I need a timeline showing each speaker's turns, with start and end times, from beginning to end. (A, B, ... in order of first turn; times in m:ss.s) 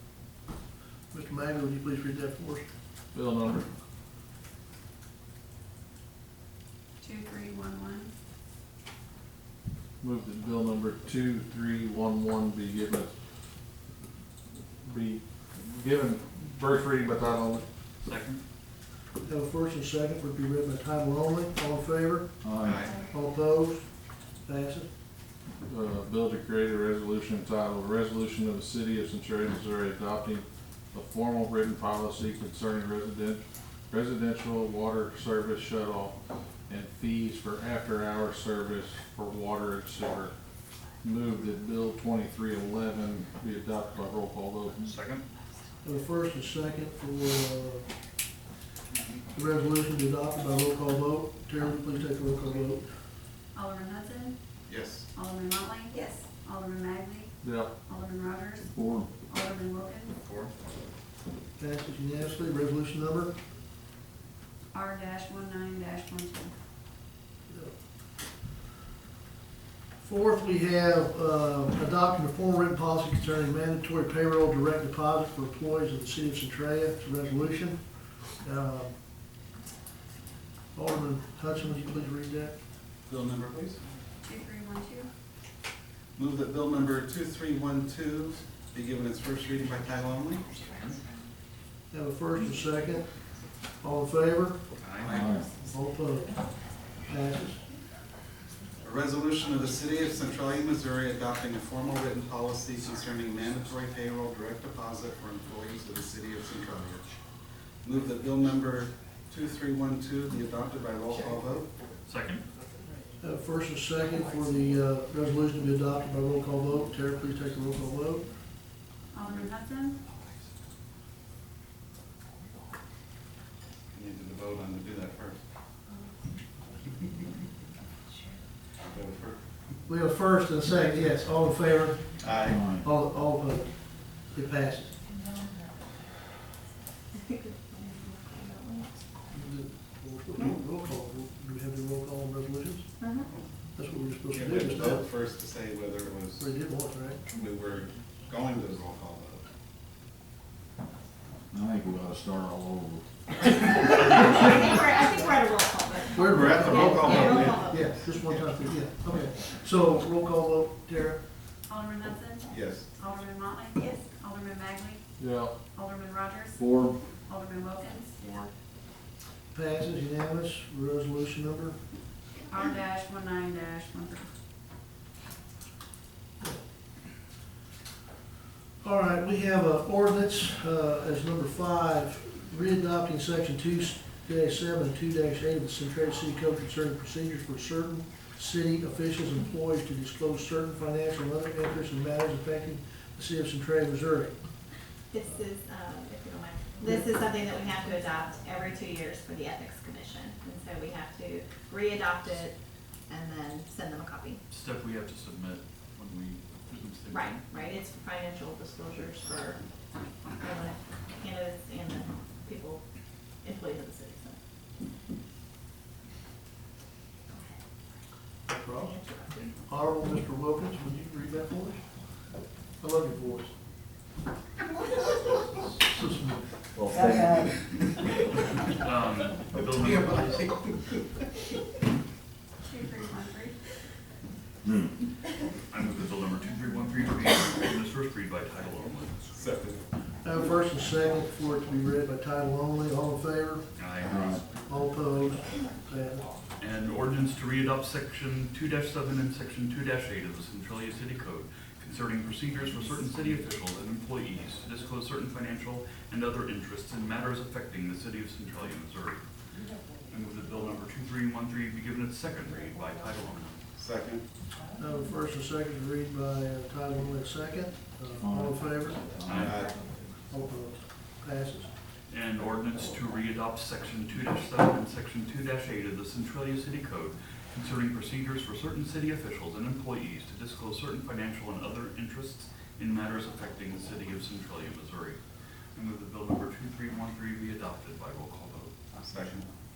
0:01.1-0:02.7 A
0:03.1-0:03.7 B
0:07.0-0:08.1 C
0:10.0-0:13.2 B
0:14.8-0:17.7 B
0:18.0-0:18.4 D
0:19.2-0:22.4 A
0:22.4-0:22.8 E
0:22.6-0:23.0 F
0:22.8-0:23.1 C
0:23.0-0:24.9 A
0:25.6-0:40.3 B
0:41.0-0:45.0 B
0:44.8-0:45.3 D
0:45.8-0:47.9 A
0:49.3-0:52.9 A
0:53.5-0:54.4 C
0:54.7-0:55.1 F
0:55.1-1:00.2 C
0:57.4-0:57.7 B
0:58.8-0:59.1 E
1:01.6-1:03.4 A
1:04.7-1:06.5 C
1:07.5-1:07.7 A
1:10.0-1:19.0 A
1:20.7-1:22.6 A
1:23.1-1:23.8 F
1:24.2-1:25.1 C
1:26.2-1:30.5 F
1:30.5-1:31.0 D
1:31.9-1:33.3 A
1:33.8-1:34.6 A
1:34.8-1:35.2 D
1:34.8-1:35.5 F
1:35.1-1:35.5 E
1:35.6-1:37.6 A
1:38.8-1:47.0 F
1:47.8-1:51.7 F
1:52.0-1:52.4 D
1:53.2-1:58.4 A
1:59.1-2:00.0 C
1:59.2-1:59.5 D
2:00.1-2:00.3 D
2:03.9-2:05.4 F
2:08.8-2:09.4 F
2:09.9-2:15.1 A
2:12.2-2:12.6 F
2:12.4-2:12.8 E
2:17.1-2:19.0 G
2:19.3-2:25.1 A
2:23.0-2:23.3 G
2:24.3-2:26.5 F
2:26.4-2:27.2 A
2:27.3-2:29.4 F
2:31.5-2:33.0 E
2:33.9-2:38.0 G
2:36.1-2:41.3 A
2:36.2-2:38.6 F
2:41.7-2:45.1 C
2:42.5-2:42.9 F
2:43.8-2:44.0 G
2:45.2-2:45.7 B
2:45.7-2:48.5 C
2:46.6-2:47.0 B
2:49.5-2:51.8 A
2:52.5-2:54.3 C
2:58.8-3:14.4 A
3:15.1-3:24.4 G
3:24.5-3:27.5 D
3:27.1-3:29.7 G
3:30.4-3:32.8 G
3:33.4-3:34.4 G
3:37.3-3:37.6 G
3:38.5-3:42.2 A
3:42.8-3:43.6 A
3:45.3-3:46.5 A
3:46.8-3:47.5 E
3:48.7-3:50.5 D
3:49.8-3:50.5 F
3:52.6-3:53.6 C
3:55.7-3:59.2 D
3:59.3-3:59.8 F
4:00.2-4:03.7 A
4:03.8-4:04.4 D
4:04.0-4:04.5 E
4:04.7-4:06.3 A
4:06.6-4:19.3 D
4:19.8-4:23.6 D
4:23.8-4:24.3 F
4:24.8-4:29.1 A
4:28.2-4:29.7 E
4:29.2-4:30.2 D
4:29.4-4:29.8 F
4:30.3-4:31.7 A
4:32.1-4:48.8 D
4:49.0-4:49.5 F